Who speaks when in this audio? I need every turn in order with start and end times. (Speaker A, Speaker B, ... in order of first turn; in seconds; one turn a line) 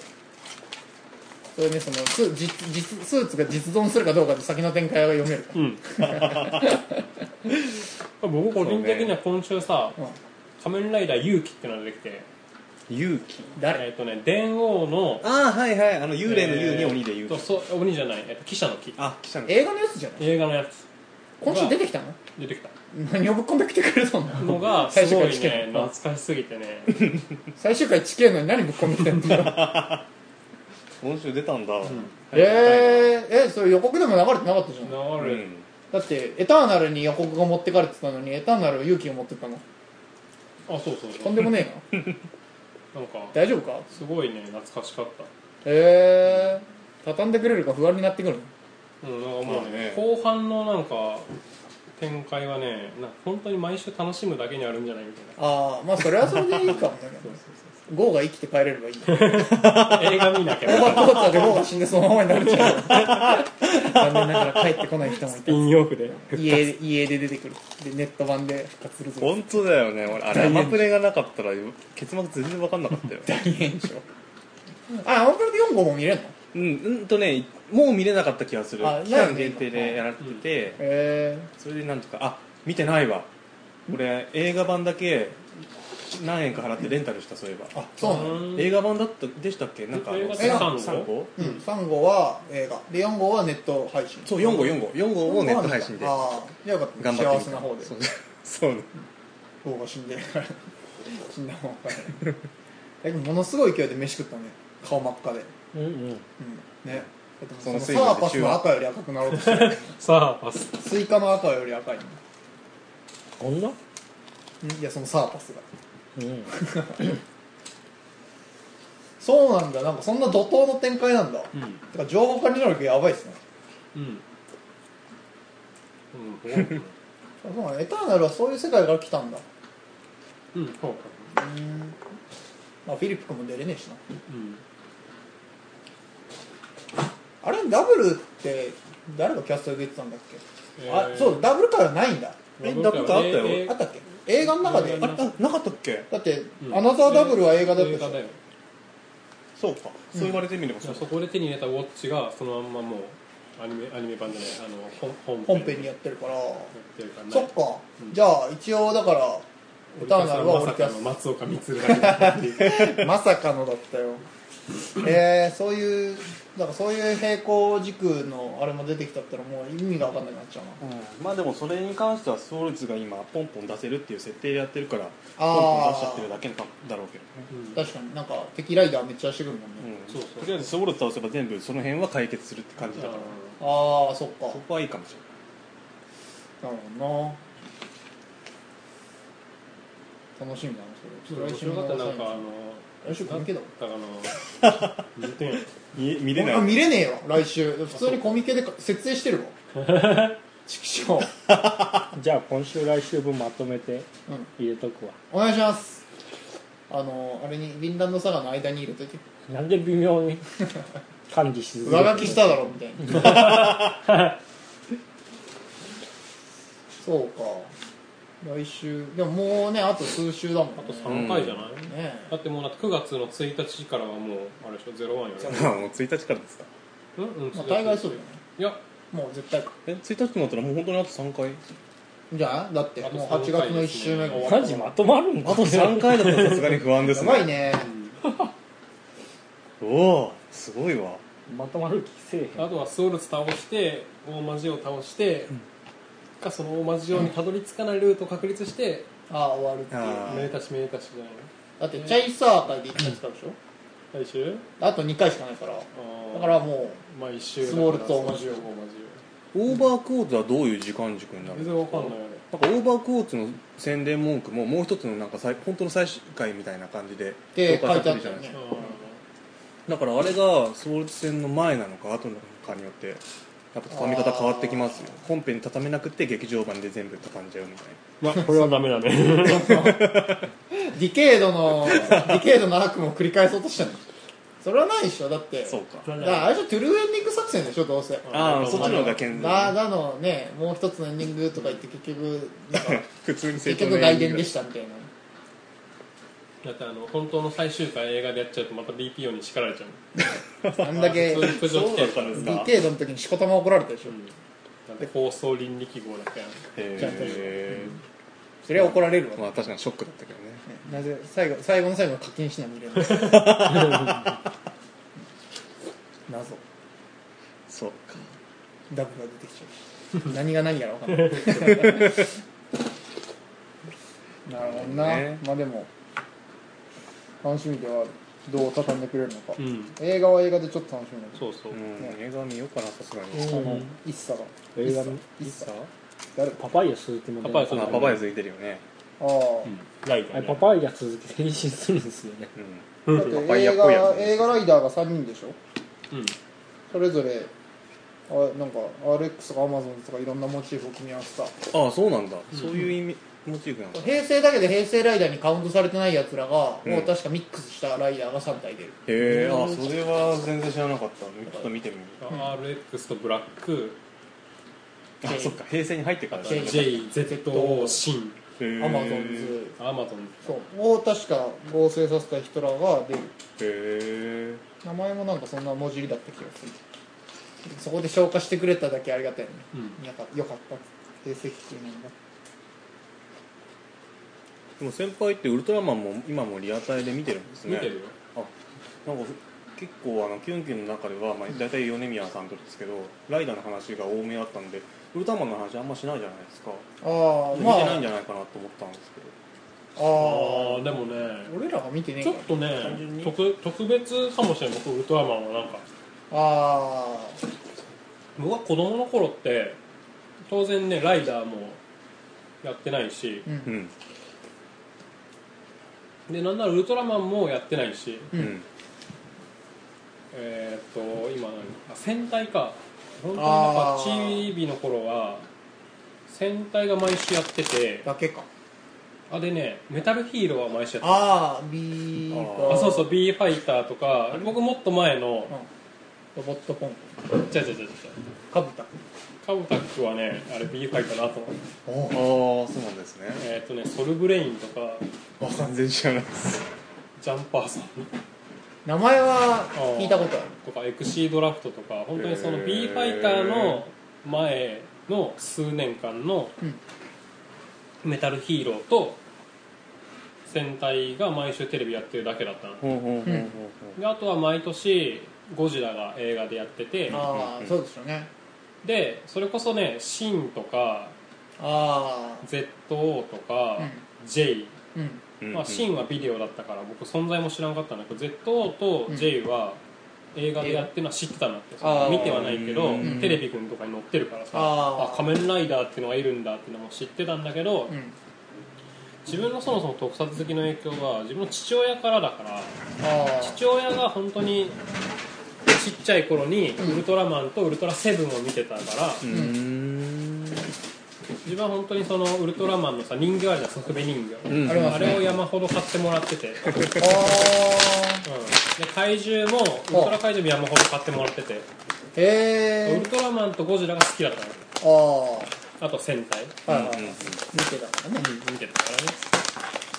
Speaker A: 1.6-7.0
Speaker B: 5.5-5.8
Speaker C: 6.1-6.6
Speaker B: 8.2-10.0
Speaker C: 8.6-9.1
Speaker B: 10.6-12.3
Speaker C: 12.9-13.5
Speaker A: 13.6-13.8
Speaker B: 13.7-15.3
Speaker C: 15.2-17.5
Speaker B: 16.2-19.0
Speaker C: 19.0-19.6
Speaker A: 19.4-20.3
Speaker B: 20.2-20.9
Speaker A: 21.4-22.2
Speaker B: 21.4-21.8
Speaker B: 22.4-22.7
Speaker A: 22.9-25.9
Speaker B: 24.4-27.1
Speaker A: 27.6-29.9
Speaker C: 29.3-30.0
Speaker C: 31.0-33.1
Speaker B: 31.9-32.7
Speaker A: 32.3-35.0
Speaker B: 34.8-35.5
Speaker C: 35.2-35.6
Speaker A: 35.9-39.6
Speaker B: 40.7-41.5
Speaker A: 41.2-41.9
Speaker B: 42.9-43.4
Speaker A: 43.3-43.9
Speaker B: 43.9-45.3
Speaker A: 45.6-48.5
Speaker B: 49.0-51.3
Speaker C: 49.5-50.0
Speaker B: 52.0-55.4
Speaker A: 55.4-59.4
Speaker B: 56.7-57.5
Speaker B: 59.1-61.5
Speaker C: 59.5-60.3
Speaker A: 60.6-65.7
Speaker C: 62.9-63.4
Speaker B: 65.3-66.6
Speaker A: 66.3-69.5
Speaker C: 69.2-73.3
Speaker A: 70.3-70.9
Speaker A: 73.2-74.1
Speaker A: 74.9-76.3
Speaker C: 76.5-80.8
Speaker A: 78.8-80.0
Speaker A: 80.8-81.5
Speaker C: 81.6-83.3
Speaker C: 83.9-85.5
Speaker C: 86.0-91.3
Speaker A: 87.7-88.5
Speaker B: 88.0-88.7
Speaker B: 89.9-91.5
Speaker A: 90.4-90.7
Speaker A: 91.4-97.9
Speaker C: 94.3-96.3
Speaker C: 97.0-98.9
Speaker A: 99.6-102.2
Speaker A: 103.0-105.5
Speaker D: 105.7-106.2
Speaker A: 106.4-109.9
Speaker C: 107.6-108.6
Speaker B: 109.3-110.8
Speaker A: 110.8-112.2
Speaker D: 113.4-113.8
Speaker A: 114.6-115.7
Speaker D: 116.2-116.5
Speaker A: 116.5-117.1
Speaker A: 119.2-123.4
Speaker B: 121.5-121.8
Speaker B: 123.9-124.2
Speaker B: 126.1-126.9
Speaker A: 127.4-129.4
Speaker B: 130.5-131.4
Speaker A: 131.3-132.0
Speaker A: 132.8-134.0
Speaker B: 134.3-134.6
Speaker A: 137.4-142.5
Speaker B: 140.8-141.5
Speaker B: 142.6-143.8
Speaker C: 142.6-143.7
Speaker A: 143.5-145.2
Speaker B: 144.5-145.3
Speaker C: 144.9-146.1
Speaker A: 146.1-148.2
Speaker B: 146.6-148.4
Speaker C: 149.6-151.1
Speaker B: 150.8-155.9
Speaker A: 155.4-156.7
Speaker B: 156.7-158.2
Speaker A: 157.3-159.4
Speaker B: 159.9-163.0
Speaker A: 160.0-161.0
Speaker A: 161.9-164.3
Speaker A: 164.9-170.8
Speaker C: 170.8-177.5
Speaker A: 175.4-176.3
Speaker B: 177.5-177.8
Speaker A: 177.7-179.9
Speaker C: 179.8-183.3
Speaker B: 180.1-180.7
Speaker B: 182.9-183.6
Speaker A: 183.6-184.6
Speaker C: 184.5-185.2
Speaker A: 186.6-187.4
Speaker A: 190.4-192.4
Speaker B: 191.3-194.4
Speaker A: 193.0-193.7
Speaker C: 194.6-195.0
Speaker B: 195.1-195.7
Speaker C: 195.9-196.8
Speaker A: 196.3-199.6
Speaker B: 199.7-200.4
Speaker A: 200.7-201.3
Speaker C: 201.5-202.1
Speaker D: 202.1-205.2
Speaker A: 205.3-206.0
Speaker A: 206.9-209.2
Speaker D: 209.5-210.5
Speaker D: 211.3-213.7
Speaker A: 211.8-213.7
Speaker C: 213.3-213.7
Speaker A: 217.0-217.7
Speaker A: 218.4-221.3
Speaker B: 220.8-225.8
Speaker C: 221.1-221.6
Speaker A: 221.9-222.3
Speaker C: 225.4-226.7
Speaker B: 227.2-228.8
Speaker A: 227.5-228.4
Speaker A: 229.1-229.7
Speaker C: 229.9-231.6
Speaker A: 232.3-234.9
Speaker B: 233.0-234.8
Speaker D: 234.3-236.6
Speaker C: 235.4-237.5
Speaker A: 237.1-237.9
Speaker B: 237.8-238.2
Speaker D: 238.2-238.5
Speaker C: 239.8-241.2
Speaker D: 241.5-242.8
Speaker B: 242.6-245.6
Speaker B: 246.4-249.1
Speaker A: 249.3-250.5
Speaker C: 249.9-250.5
Speaker B: 250.2-252.2
Speaker A: 251.8-253.6
Speaker B: 254.1-254.7
Speaker A: 254.8-257.0
Speaker B: 255.9-259.2
Speaker A: 257.6-258.6
Speaker C: 259.5-268.6
Speaker B: 261.5-262.4
Speaker A: 267.6-268.6
Speaker B: 268.5-269.2
Speaker C: 269.9-273.2
Speaker C: 273.7-278.0
Speaker A: 273.9-275.1
Speaker B: 278.2-279.9
Speaker A: 278.4-278.7
Speaker A: 279.4-280.2
Speaker C: 279.7-280.5
Speaker A: 280.9-284.0
Speaker A: 284.6-293.1
Speaker C: 285.7-286.1
Speaker B: 286.1-286.6
Speaker B: 288.2-289.2
Speaker C: 288.3-289.8
Speaker C: 292.7-294.5
Speaker A: 293.6-295.1
Speaker B: 296.6-300.0
Speaker C: 300.6-302.7
Speaker A: 300.8-301.6
Speaker B: 300.9-302.4
Speaker A: 302.3-304.2
Speaker B: 304.1-304.3
Speaker B: 304.9-306.6
Speaker C: 306.7-307.9
Speaker A: 307.0-307.9
Speaker A: 308.6-309.5
Speaker C: 308.7-310.7
Speaker A: 310.7-313.8
Speaker C: 313.1-314.4
Speaker A: 316.3-316.6
Speaker C: 317.7-318.3
Speaker A: 318.9-322.3
Speaker A: 324.4-325.9
Speaker C: 324.6-325.4
Speaker A: 327.4-331.4
Speaker B: 329.6-329.9
Speaker B: 331.4-331.8
Speaker C: 331.7-333.9
Speaker D: 333.3-333.9
Speaker A: 333.4-335.7
Speaker D: 334.8-335.2
Speaker B: 335.4-335.9
Speaker D: 336.6-338.2
Speaker B: 337.4-338.3
Speaker C: 337.7-338.8
Speaker A: 339.2-339.7
Speaker B: 339.6-340.7
Speaker D: 340.3-342.5
Speaker C: 342.6-344.6
Speaker B: 343.1-343.4
Speaker A: 343.1-345.6
Speaker B: 346.1-346.4
Speaker A: 346.9-347.5
Speaker A: 348.3-351.6
Speaker C: 351.7-354.1
Speaker A: 353.9-359.0
Speaker C: 356.9-357.1
Speaker C: 359.1-362.2
Speaker B: 362.2-364.0
Speaker C: 365.2-367.1
Speaker A: 365.2-365.6
Speaker B: 366.3-368.4
Speaker A: 366.4-368.0
Speaker C: 368.6-369.6
Speaker A: 368.8-369.7
Speaker B: 369.8-370.5
Speaker A: 370.4-373.3
Speaker C: 373.6-374.6
Speaker A: 374.8-376.8
Speaker A: 377.6-382.1
Speaker B: 379.7-380.0
Speaker C: 384.8-388.5
Speaker B: 387.6-388.1
Speaker C: 389.1-396.9
Speaker A: 397.0-398.1
Speaker C: 397.5-399.4
Speaker A: 399.9-400.8
Speaker B: 400.1-401.5
Speaker A: 401.4-403.0
Speaker B: 402.2-405.9
Speaker C: 402.8-403.3
Speaker A: 406.3-407.4
Speaker B: 408.4-409.8
Speaker B: 410.5-411.8
Speaker B: 412.6-413.5
Speaker C: 413.6-413.9
Speaker B: 416.3-418.3
Speaker C: 418.3-418.6
Speaker B: 420.3-425.5
Speaker A: 423.4-424.5
Speaker B: 426.3-428.1
Speaker A: 428.1-428.5
Speaker B: 429.3-431.4
Speaker A: 431.0-433.1
Speaker C: 432.3-433.0
Speaker B: 432.7-435.5
Speaker A: 436.4-437.1
Speaker B: 437.3-438.2
Speaker A: 438.5-438.9
Speaker B: 439.4-441.6
Speaker A: 441.9-442.2
Speaker C: 442.1-443.4
Speaker B: 443.4-445.1
Speaker C: 445.4-446.7
Speaker B: 447.2-448.1
Speaker A: 448.9-450.5
Speaker B: 449.7-456.6
Speaker C: 452.2-453.8
Speaker B: 458.0-459.2
Speaker B: 460.4-462.8
Speaker C: 462.8-464.0
Speaker B: 463.9-467.2
Speaker A: 467.1-468.3
Speaker C: 467.1-467.7
Speaker B: 468.8-471.1
Speaker A: 471.6-472.4
Speaker B: 472.4-474.8
Speaker A: 474.9-475.2
Speaker C: 475.4-475.9
Speaker B: 475.5-479.8
Speaker B: 480.3-487.9
Speaker A: 480.6-480.9
Speaker A: 481.8-483.4
Speaker C: 481.9-483.4
Speaker A: 484.5-485.3
Speaker B: 489.3-492.8
Speaker A: 493.0-493.6
Speaker B: 493.4-494.8
Speaker B: 495.7-499.3
Speaker C: 499.2-500.6
Speaker A: 499.3-499.6
Speaker B: 501.4-507.0
Speaker C: 504.5-505.4
Speaker A: 504.6-505.2
Speaker A: 507.0-508.2
Speaker B: 508.2-511.7
Speaker A: 509.9-510.2
Speaker A: 512.1-513.1
Speaker B: 512.9-514.7
Speaker A: 514.8-515.5
Speaker B: 515.8-516.6
Speaker A: 516.7-518.3
Speaker C: 516.7-517.4
Speaker B: 518.2-519.3